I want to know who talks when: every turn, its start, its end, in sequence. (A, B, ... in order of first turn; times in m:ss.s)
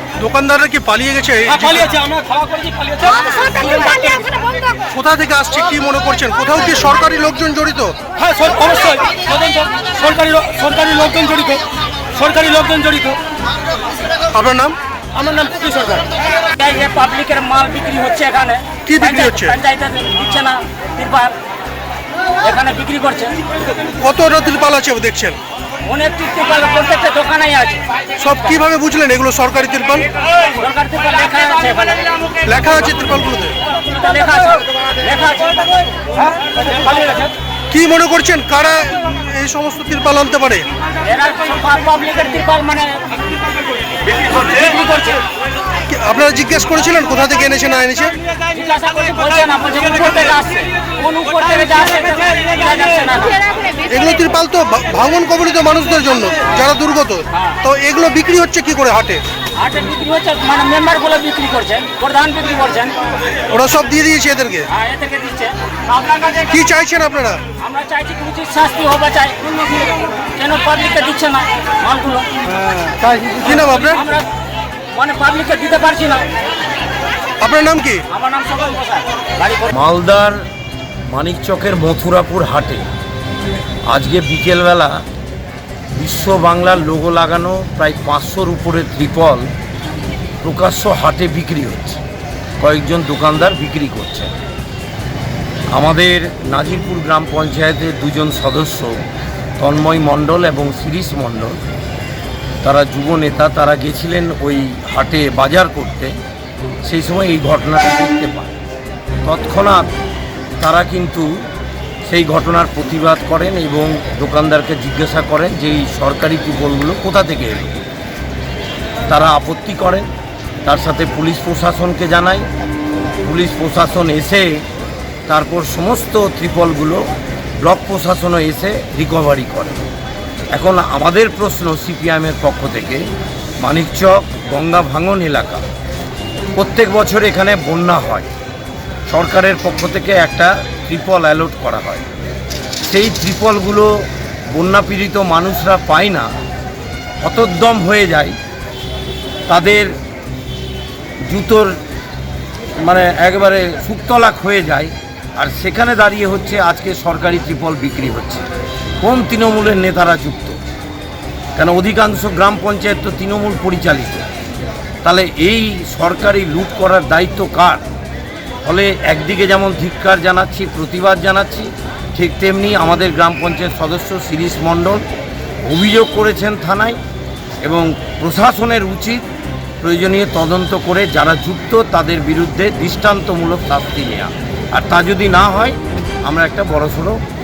0:00.2-0:01.8 A
0:01.4-0:04.7 B
0:04.9-0:08.0 A
0:08.2-0:13.2 B
0:14.3-0:14.8 A
0:15.1-0:16.1 B
0:16.6-0:18.8 C
0:18.8-0:19.6 A
0:19.6-0:21.4 C
0:22.4-0:23.4 C
0:24.0-0:25.4 A
0:25.8-0:27.8 C
0:28.2-0:30.1 A
0:30.5-0:32.1 C
0:32.4-0:33.6 A
0:33.8-0:35.8 C
0:36.2-0:37.3 B
0:37.7-0:40.7 A
0:41.0-0:43.1 C
0:44.1-0:45.2 C
0:45.9-0:48.2 A
0:48.5-0:53.4 C
0:53.8-0:59.2 A
0:59.6-1:03.0 C
1:03.5-1:04.7 A
1:04.8-1:06.4 C
1:06.4-1:07.4 A
1:07.6-1:12.3 C
1:12.6-1:14.0 A
1:14.9-1:16.3 C
1:17.4-1:18.1 A
1:18.1-1:19.7 C
1:19.7-1:20.4 D
1:21.1-1:22.9 D
1:23.9-1:25.0 D
1:25.9-1:29.5 D
1:30.4-1:32.0 D
1:32.6-1:34.3 D
1:35.7-1:39.0 D
1:39.6-1:41.6 D
1:42.6-1:46.1 D
1:46.8-1:48.6 D
1:49.2-1:49.9 D
1:50.6-1:51.4 D
1:52.0-1:57.8 D
1:59.1-2:00.1 D
2:00.6-2:02.5 D
2:03.2-2:04.6 D
2:05.3-2:07.1 D
2:07.6-2:09.8 D
2:10.5-2:13.0 D
2:13.6-2:15.6 D
2:16.6-2:18.3 D
2:19.1-2:22.0 D
2:22.8-2:26.3 D
2:27.2-2:28.4 D
2:29.5-2:29.9 D
2:31.3-2:31.8 D
2:32.8-2:38.4 D
2:39.0-2:40.6 D
2:41.6-2:44.2 D
2:45.0-2:47.8 D
2:48.6-2:55.0 D
2:55.6-2:57.0 D
2:57.6-2:59.2 D
2:59.8-3:07.2 D